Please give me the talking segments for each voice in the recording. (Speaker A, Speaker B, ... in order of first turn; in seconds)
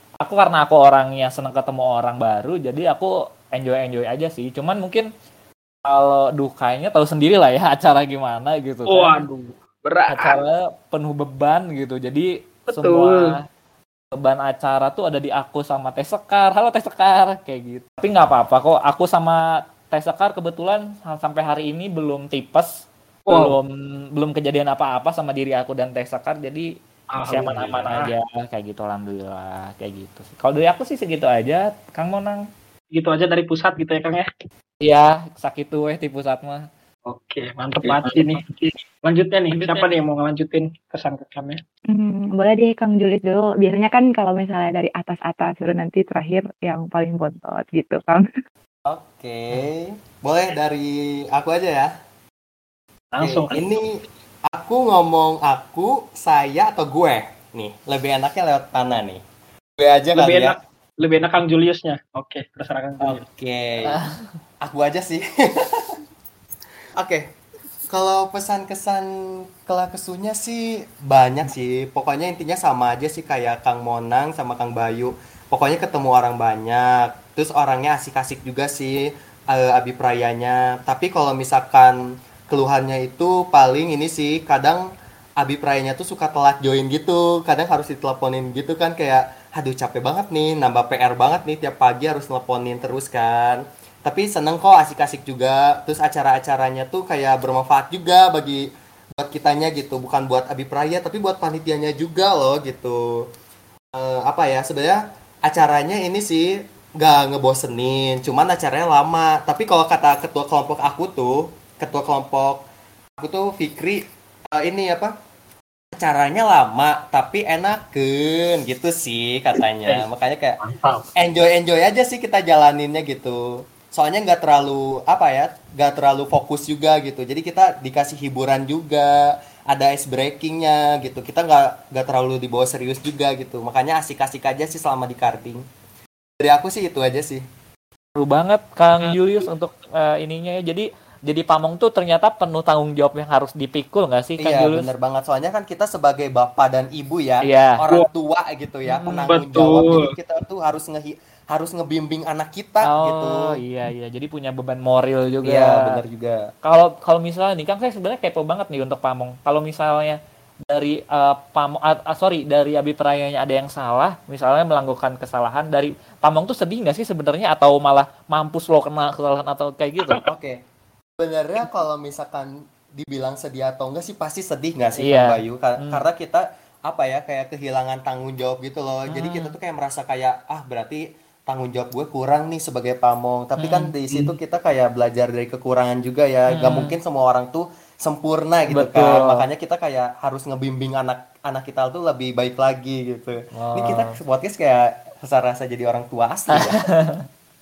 Speaker A: 0.2-5.1, 5.9-9.2, 10.1-13.4, 14.1-26.7, 27.2-32.4, 34.8-36.7, 37.8-38.3, 39.5-39.8, 63.9-64.2, 138.2-144.9, 147.4-147.8, 148.9-149.3, 152.8-155.9, 156.6-160.2, 160.7-170.2, 175.0-176.0, 179.1-179.5, 183.6-183.9, 186.5-186.9, 188.7-189.4, 193.5-194.1, 196.5-197.2
Speaker B: 8.9-10.4, 12.7-13.3, 23.3-23.5, 27.1-28.1, 32.9-34.2, 37.1-38.4, 39.0-41.6, 53.1-53.7, 60.1-63.2, 120.6-121.1, 149.3-150.1
Speaker C: 41.9-48.2
Speaker D: 48.9-51.9, 53.2-54.0, 54.5-59.2, 59.8-60.5, 63.0-64.0, 64.6-65.9, 67.0-67.3, 67.9-82.0, 82.5-103.2, 103.9-112.6, 113.2-115.1, 115.9-120.6, 121.2-135.6, 136.4-137.4, 144.4-153.5, 155.4-156.5, 170.2-170.6, 171.2-196.8